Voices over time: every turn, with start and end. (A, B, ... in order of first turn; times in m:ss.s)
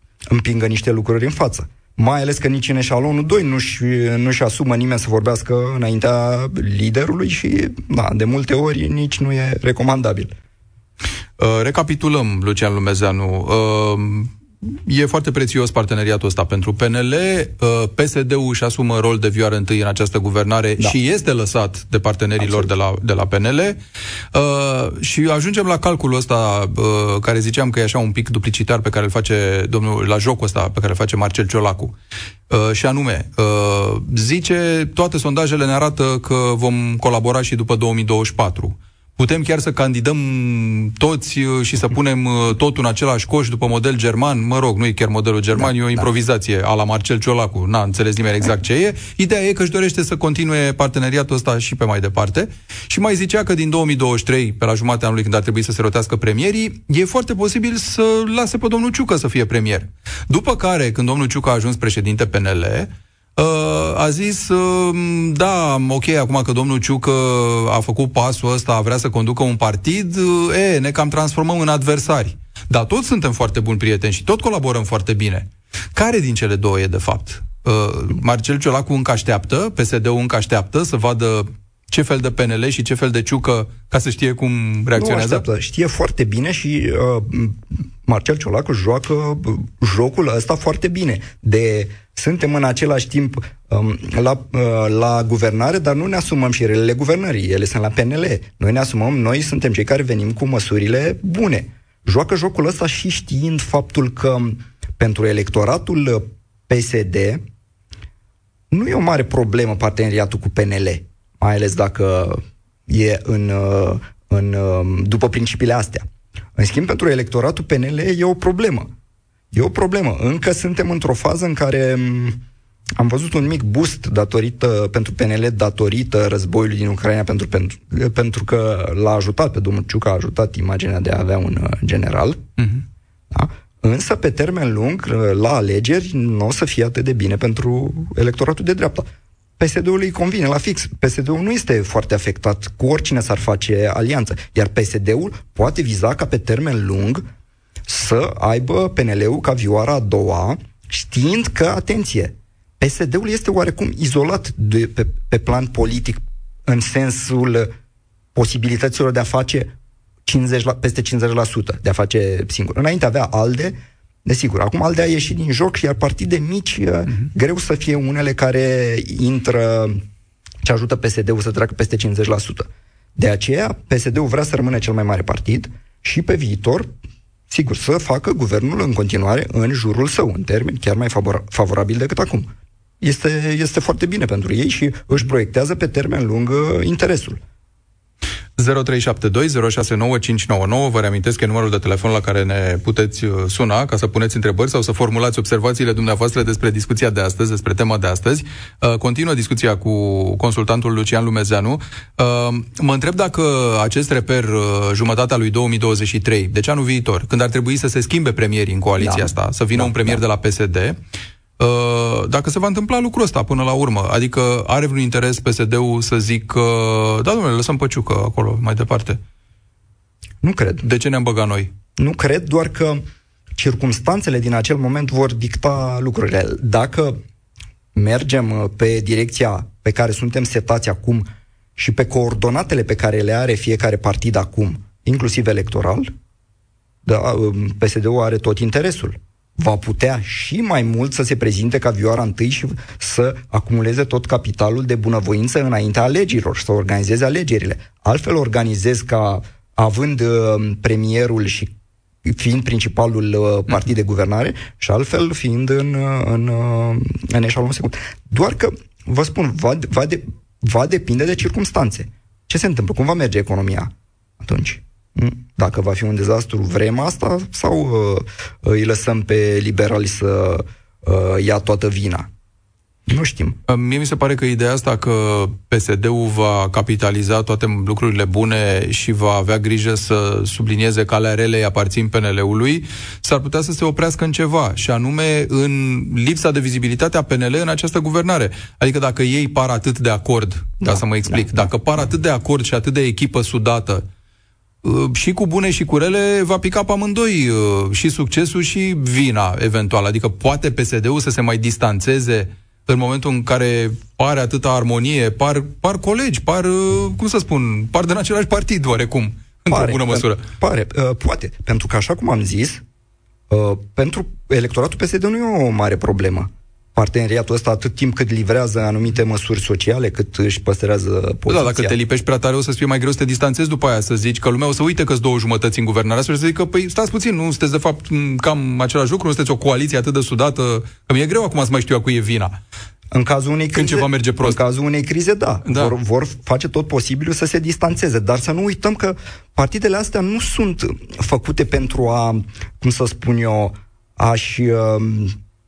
0:00.3-0:10.3 A
0:11.4-0:23.8 B
0:22.4-0:22.7 A
0:24.3-0:31.9 B
0:32.5-1:25.4 B
0:45.5-0:46.1 A
1:25.0-1:47.4 A
1:48.7-1:56.0 A
1:56.6-1:58.9 A
1:59.5-2:02.4 A
2:03.0-2:12.4 A
2:13.3-2:19.1 A
2:19.6-2:27.2 A
2:27.9-2:37.7 A
2:38.3-2:39.7 A
2:40.2-2:50.0 A
2:50.6-2:56.9 A
2:57.5-3:02.5 A
3:03.0-3:07.4 A
3:08.6-3:31.0 B
3:29.0-3:30.2 A
3:31.6-3:39.2 B
3:40.4-3:40.8 A
3:40.8-3:41.7 B
3:42.0-3:43.0 A
3:43.6-3:47.2 A
3:47.9-3:56.1 A
3:57.0-4:11.7 A
4:12.2-4:32.3 A
4:33.1-4:33.6 A
4:33.7-4:54.0 B
4:50.8-4:51.7 A
4:54.8-5:10.4 B
5:09.7-5:12.8 A
5:13.5-5:21.9 A
5:21.5-5:32.6 B
5:33.1-5:45.4 A
5:33.7-5:34.6 B
5:35.6-5:35.9 B